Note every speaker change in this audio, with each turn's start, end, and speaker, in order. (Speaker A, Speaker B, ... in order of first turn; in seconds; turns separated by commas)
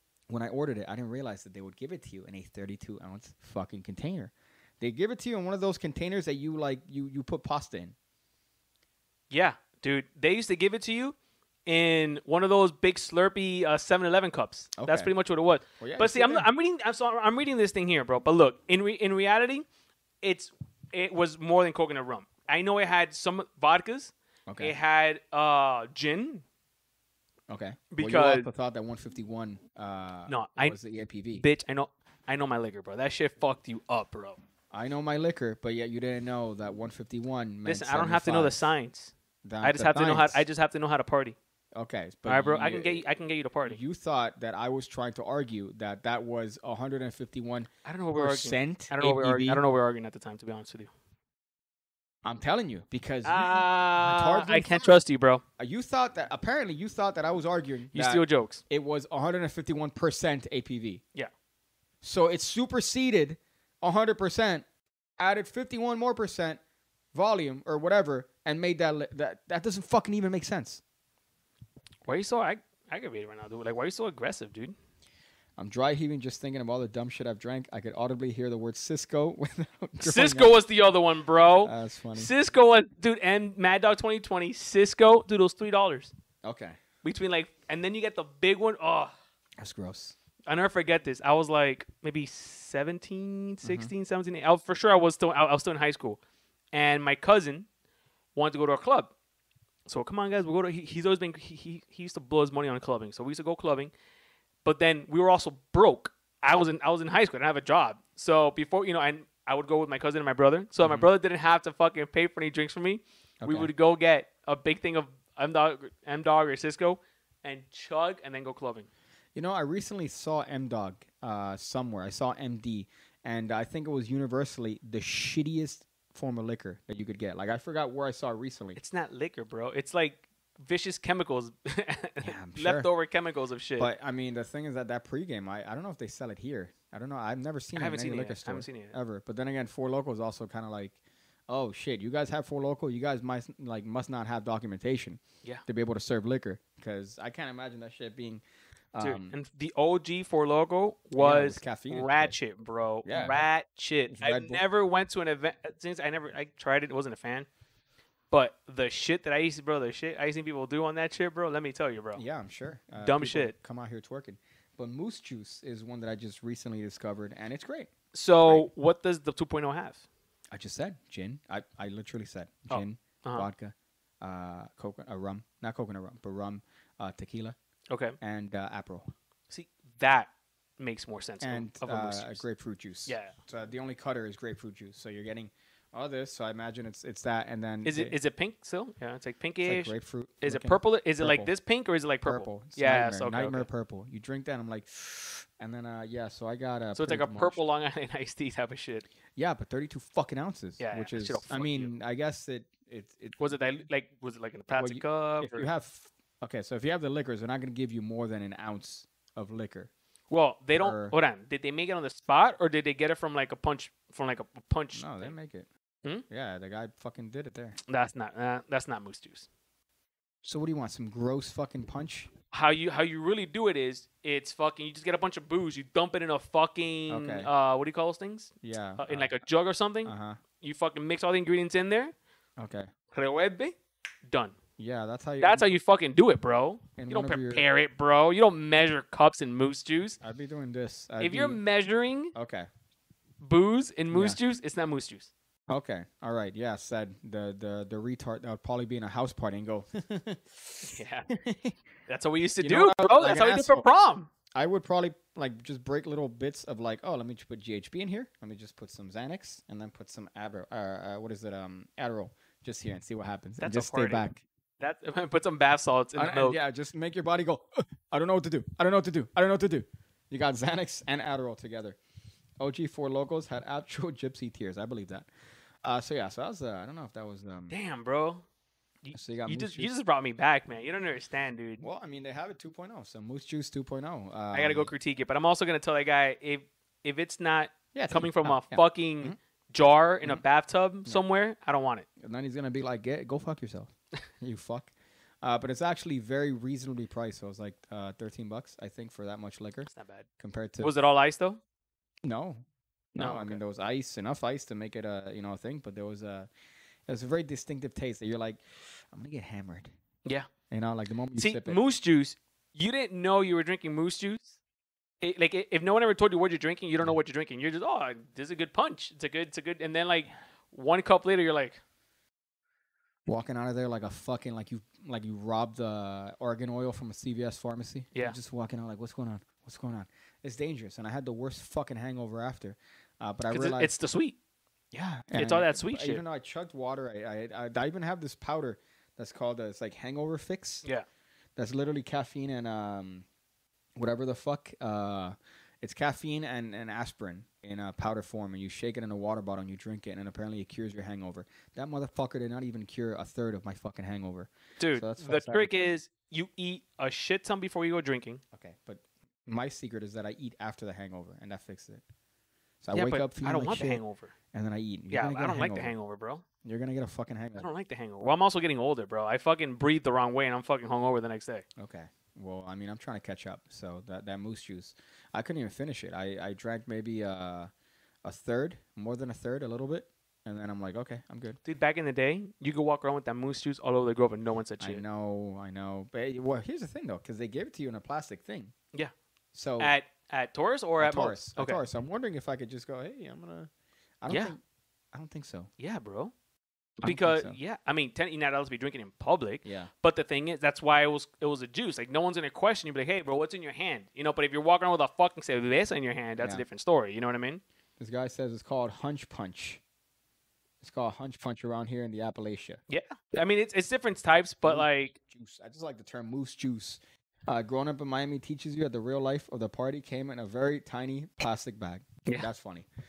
Speaker A: 0.3-8.0, Speaker B: 9.3-19.7, Speaker A: 14.8-15.1, Speaker A: 15.8-16.5, Speaker B: 20.2-26.4, Speaker A: 24.5-24.8, Speaker A: 27.5-31.4, Speaker B: 27.9-28.5, Speaker B: 30.3-30.8, Speaker B: 31.4-34.4, Speaker A: 34.7-38.7, Speaker B: 37.6-41.4, Speaker A: 39.4-40.5, Speaker A: 41.8-43.0, Speaker B: 42.3-43.8, Speaker A: 43.6-49.6, Speaker B: 47.9-50.9, Speaker A: 52.2-55.0, Speaker B: 53.2-55.4, Speaker A: 55.6-61.0, Speaker B: 57.9-58.6, Speaker A: 62.0-64.7, Speaker A: 65.2-66.6, Speaker A: 67.1-70.8, Speaker B: 72.1-74.8, Speaker A: 75.6-80.6, Speaker B: 80.0-86.1, Speaker A: 81.6-82.3, Speaker A: 86.4-86.8, Speaker B: 87.0-89.1, Speaker A: 89.6-90.2, Speaker B: 90.5-96.2, Speaker A: 93.6-93.9, Speaker B: 96.7-97.7, Speaker B: 98.4-99.1, Speaker B: 99.9-103.9, Speaker B: 104.7-118.9, Speaker A: 110.8-111.1, Speaker A: 113.4-113.7, Speaker A: 119.3-128.8, Speaker B: 128.8-133.9, Speaker A: 132.2-132.9, Speaker A: 133.8-141.0, Speaker B: 137.8-139.0, Speaker A: 141.5-148.4, Speaker A: 148.9-149.3, Speaker B: 149.0-157.5, Speaker A: 151.2-152.3, Speaker A: 153.1-153.4, Speaker A: 154.1-154.6, Speaker B: 158.3-162.2, Speaker A: 162.2-167.9, Speaker B: 163.0-163.5, Speaker B: 168.1-170.1, Speaker A: 170.5-177.6, Speaker B: 172.7-173.5, Speaker B: 177.9-178.2, Speaker A: 178.2-179.1, Speaker B: 179.5-182.4, Speaker A: 181.4-188.2, Speaker B: 183.1-183.4, Speaker B: 187.8-193.7, Speaker A: 189.6-191.5, Speaker A: 192.2-197.6, Speaker B: 196.9-199.1, Speaker A: 199.4-203.5, Speaker B: 200.8-201.9, Speaker B: 203.4-205.7, Speaker A: 204.7-209.9, Speaker B: 210.3-215.3, Speaker A: 210.8-211.2, Speaker A: 214.9-215.7, Speaker A: 216.3-217.8, Speaker B: 217.9-219.5, Speaker A: 220.4-222.3, Speaker B: 222.5-232.1, Speaker A: 227.1-227.5, Speaker A: 228.6-229.3, Speaker A: 230.1-230.4, Speaker A: 232.6-232.9, Speaker B: 233.1-233.8, Speaker B: 234.3-234.6, Speaker A: 234.8-235.7, Speaker B: 235.4-240.2, Speaker A: 237.0-237.7, Speaker A: 240.2-241.6, Speaker B: 241.2-242.3, Speaker A: 242.3-242.7, Speaker B: 243.4-245.3, Speaker A: 244.1-244.4, Speaker A: 245.7-251.8, Speaker B: 250.8-251.3, Speaker B: 252.1-254.3, Speaker A: 252.6-253.8, Speaker A: 254.5-264.4, Speaker B: 263.6-264.3, Speaker B: 264.8-266.6, Speaker A: 266.2-272.0, Speaker A: 272.6-275.3, Speaker A: 275.8-277.7, Speaker B: 277.7-278.4, Speaker B: 279.0-281.9, Speaker A: 279.1-279.9, Speaker A: 281.8-284.9, Speaker B: 284.5-292.1, Speaker A: 287.9-289.4, Speaker A: 292.2-300.9, Speaker B: 299.9-300.3, Speaker B: 300.8-301.6, Speaker A: 302.2-306.5, Speaker B: 303.2-303.6, Speaker A: 307.1-309.9, Speaker A: 310.7-311.8, Speaker B: 311.4-314.6, Speaker B: 315.2-321.8, Speaker A: 323.3-333.9, Speaker B: 333.5-334.4, Speaker A: 334.9-340.9, Speaker B: 335.3-336.2, Speaker A: 341.6-343.2, Speaker A: 344.0-355.7, Speaker B: 354.8-358.4, Speaker A: 358.5-362.0, Speaker A: 362.8-364.0, Speaker B: 362.9-364.3, Speaker A: 364.5-365.9, Speaker B: 365.1-366.4, Speaker A: 366.6-367.7, Speaker B: 367.6-371.6, Speaker A: 371.8-377.7, Speaker A: 378.2-381.6, Speaker B: 381.6-385.0, Speaker A: 384.8-388.7, Speaker A: 389.5-389.9, Speaker B: 389.8-391.8, Speaker A: 391.0-393.7, Speaker A: 394.2-394.6, Speaker B: 394.3-394.5, Speaker A: 395.1-395.7, Speaker B: 395.8-396.3, Speaker A: 397.0-397.6, Speaker B: 397.0-407.6, Speaker A: 399.6-399.9, Speaker A: 406.4-406.6, Speaker A: 408.0-409.8, Speaker A: 410.8-412.8, Speaker B: 412.9-415.2, Speaker A: 414.6-422.9